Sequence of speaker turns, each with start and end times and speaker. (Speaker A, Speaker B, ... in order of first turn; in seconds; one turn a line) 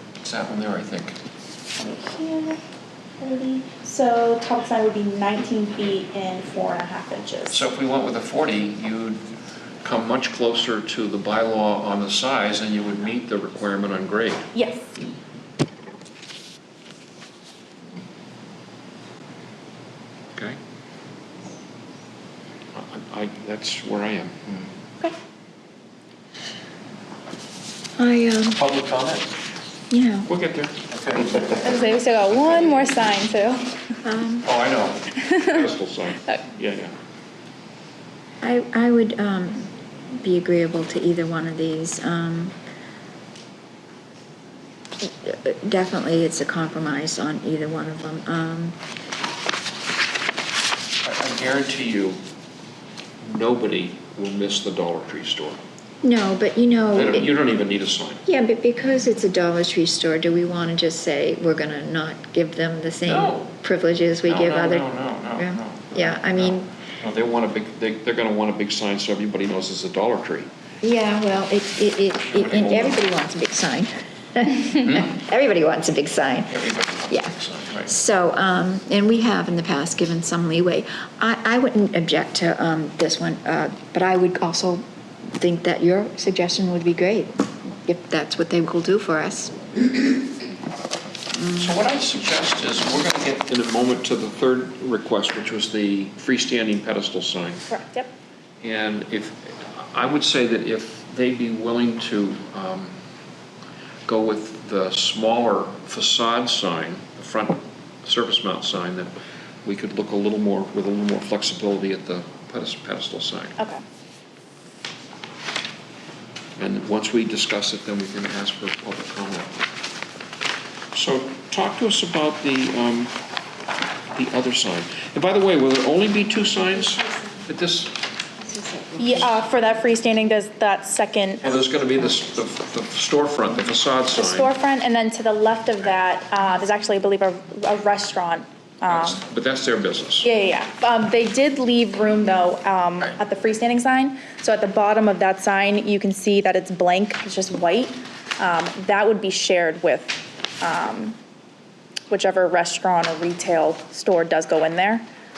Speaker A: 0.2-1.2
Speaker B: 1.8-2.6
Speaker B: 3.2-7.6
Speaker A: 7.5-9.3
Speaker A: 9.8-14.5
Speaker B: 14.5-14.9
Speaker A: 22.7-24.7
Speaker C: 28.0-28.6
Speaker A: 28.6-29.3
Speaker C: 29.9-30.3
Speaker A: 30.2-33.0
Speaker B: 31.6-33.7
Speaker C: 34.0-34.5
Speaker A: 34.5-36.9
Speaker B: 35.2-35.4
Speaker C: 38.4-42.5
Speaker C: 45.0-48.8
Speaker A: 51.0-52.2
Speaker A: 53.2-55.6
Speaker C: 56.0-57.3
Speaker A: 56.9-58.2
Speaker C: 58.3-66.7
Speaker A: 63.0-63.5
Speaker A: 64.2-70.5
Speaker C: 70.8-84.8
Speaker A: 72.3-73.0
Speaker A: 74.8-75.1
Speaker A: 76.5-77.9
Speaker C: 85.4-89.7
Speaker A: 91.5-97.6
Speaker B: 97.7-98.1
Speaker A: 98.6-102.9
Speaker A: 104.1-109.1
Speaker A: 109.6-113.6
Speaker B: 113.6-113.8
Speaker A: 116.6-119.7
Speaker A: 120.9-123.1
Speaker A: 124.1-128.0
Speaker C: 128.4-129.3
Speaker B: 129.0-131.5
Speaker A: 131.4-134.5
Speaker B: 134.1-139.2
Speaker A: 138.9-140.3
Speaker B: 140.2-151.2
Speaker B: 152.1-155.1